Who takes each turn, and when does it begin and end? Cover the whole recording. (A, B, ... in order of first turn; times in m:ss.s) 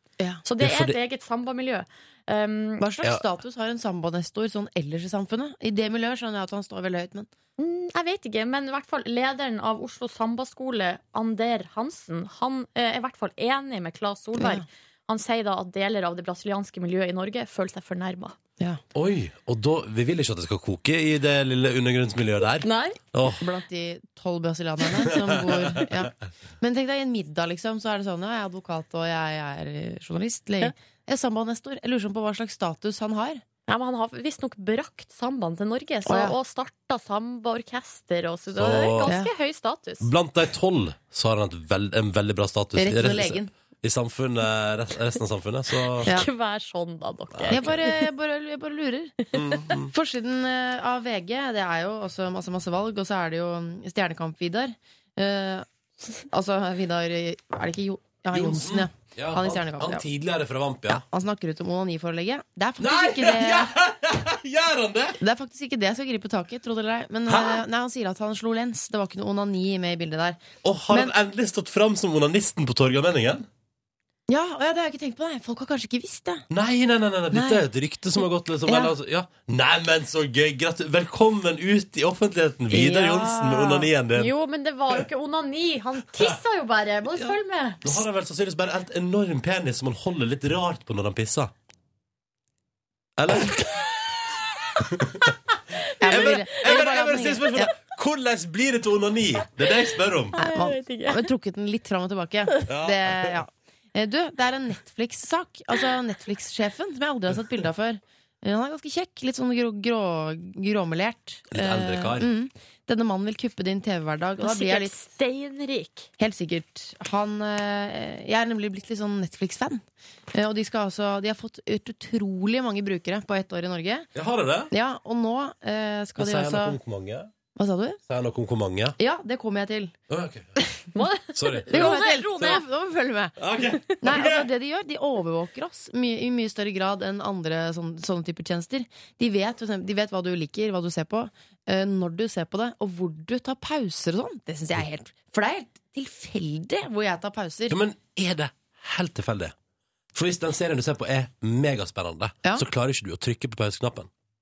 0:00.4-0:02.8 A
0:00.6-0:01.0 B
0:02.8-0:07.3 C
0:07.6-0:18.4 A
0:14.4-0:14.7 C
0:18.9-0:23.4 B
0:22.6-0:23.0 A
0:23.4-0:33.4 C
0:25.2-0:25.9 B
0:33.7-0:40.1 A
0:36.0-0:36.4 C
0:38.5-0:39.1 B
0:39.0-0:39.3 C
0:40.0-0:46.1 B
0:42.8-0:43.5 C
0:46.0-0:48.0 A
0:47.4-0:47.8 B
0:47.5-0:49.2 C
0:49.3-0:49.9 B
0:49.9-0:55.7 C
0:56.2-1:00.0 C
0:58.3-1:01.0 B
1:00.9-1:03.7 C
1:02.8-1:05.2 B
1:05.2-1:11.1 C
1:07.3-1:07.6 B
1:10.6-1:13.5 B
1:14.3-1:16.4 C
1:16.5-1:24.3 B
1:17.3-1:17.7 C
1:18.7-1:18.9 C
1:22.7-1:23.9 C
1:24.2-1:28.0 A
1:27.2-1:31.5 B
1:33.2-1:33.9 B
1:34.8-1:35.3 B
1:36.0-1:37.7 C
1:36.0-1:40.4 B
1:36.0-1:36.4 A
1:40.4-1:41.3 A
1:40.4-1:55.0 C
1:42.7-1:43.4 B
1:51.5-1:52.3 B
1:54.4-1:56.1 A
1:56.2-2:04.1 C
2:04.2-2:04.7 B
2:04.7-2:06.8 C
2:06.2-2:07.3 B
2:07.6-2:08.0 C
2:08.1-2:09.0 B
2:09.0-2:09.9 C
2:10.1-2:10.6 B
2:10.9-2:12.6 A
2:11.3-2:12.0 B
2:11.7-2:27.8 C
2:13.4-2:14.5 B
2:27.7-2:29.5 B
2:30.1-2:34.1 B